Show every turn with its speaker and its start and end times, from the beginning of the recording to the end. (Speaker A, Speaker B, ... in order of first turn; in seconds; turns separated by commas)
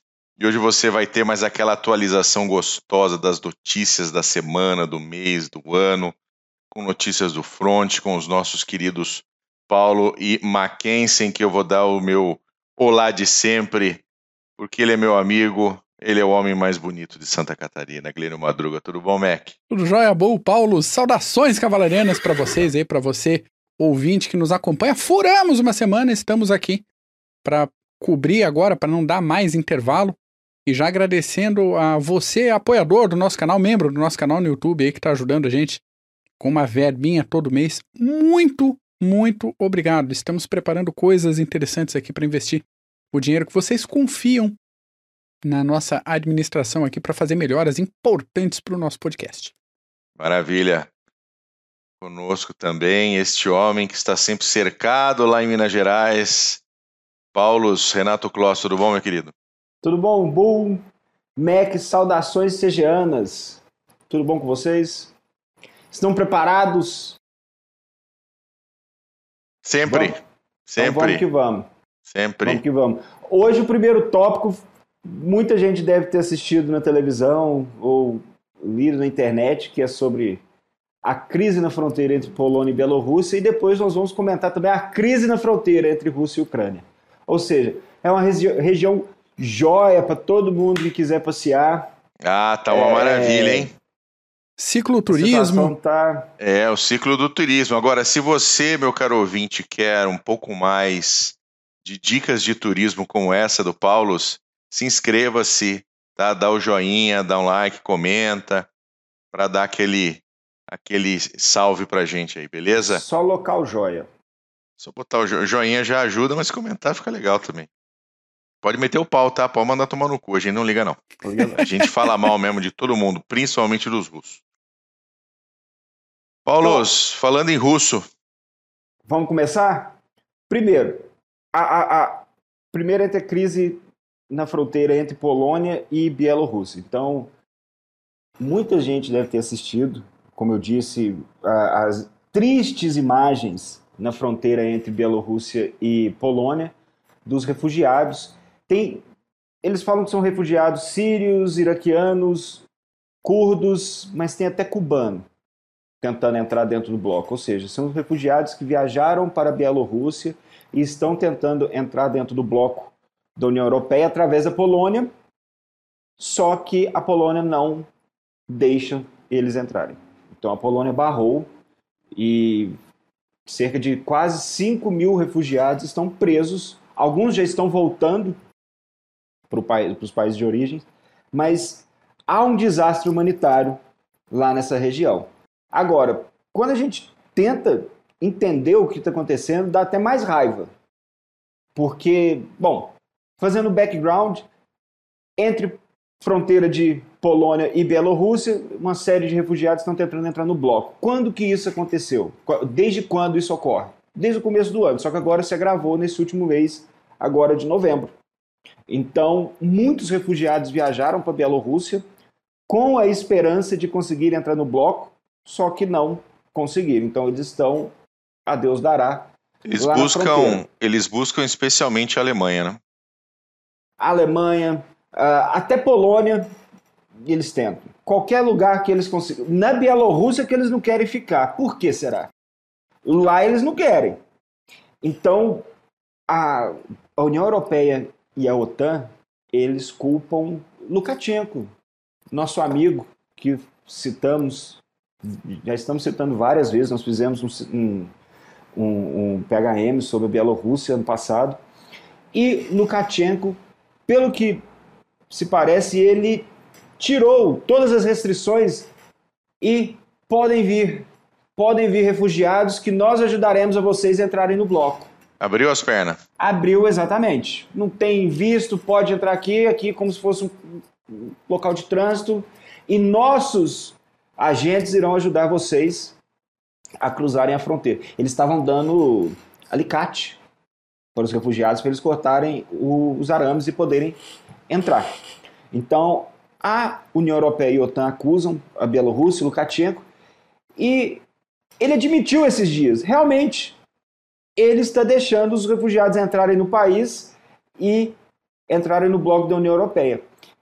Speaker A: 0.4-6.1, Speaker A: 6.7-14.0, Speaker A: 14.6-19.6, Speaker B: 19.7-26.8, Speaker B: 27.4-35.8, Speaker B: 36.4-44.5, Speaker B: 45.4-49.5, Speaker A: 50.2-50.9, Speaker A: 52.0-56.6, Speaker A: 57.3-59.3, Speaker C: 59.8-60.8, Speaker C: 61.4-65.1, Speaker C: 65.9-67.2, Speaker A: 69.6-71.2, Speaker C: 69.9-70.2, Speaker C: 70.8-71.7, Speaker A: 72.1-72.6, Speaker C: 72.4-80.4, Speaker C: 81.0-91.9, Speaker A: 92.2-93.7, Speaker C: 92.7-93.7, Speaker B: 94.6-95.7, Speaker C: 95.1-96.3, Speaker A: 96.4-108.7, Speaker A: 109.3-113.0, Speaker C: 112.8-114.1, Speaker A: 114.8-117.7, Speaker A: 118.6-124.4, Speaker C: 121.2-121.6, Speaker A: 126.5-128.1, Speaker C: 129.1-129.9, Speaker C: 130.5-137.3, Speaker C: 138.4-149.0, Speaker C: 149.6-152.7, Speaker C: 153.2-155.3, Speaker C: 156.0-165.1, Speaker C: 166.2-167.9, Speaker C: 168.5-171.5, Speaker C: 172.1-172.8, Speaker C: 173.4-178.4, Speaker C: 179.5-183.8, Speaker C: 184.3-190.7, Speaker C: 191.7-194.5, Speaker C: 195.4-208.1, Speaker C: 208.9-212.0, Speaker C: 212.7-217.9, Speaker C: 218.5-220.6, Speaker A: 219.6-222.8, Speaker C: 224.0-226.5, Speaker C: 227.2-232.3, Speaker C: 233.0-234.2, Speaker C: 235.0-235.7, Speaker C: 236.3-241.7, Speaker C: 242.3-248.1, Speaker C: 248.7-251.6, Speaker C: 252.3-254.6, Speaker C: 255.3-256.5, Speaker C: 257.0-258.9, Speaker C: 259.6-265.1, Speaker A: 265.4-266.2, Speaker C: 266.4-276.2, Speaker C: 277.0-280.4, Speaker C: 281.1-284.2, Speaker C: 284.7-285.1, Speaker C: 285.7-290.1, Speaker C: 290.8-291.2, Speaker C: 291.8-293.8, Speaker C: 294.6-298.1, Speaker C: 298.7-300.2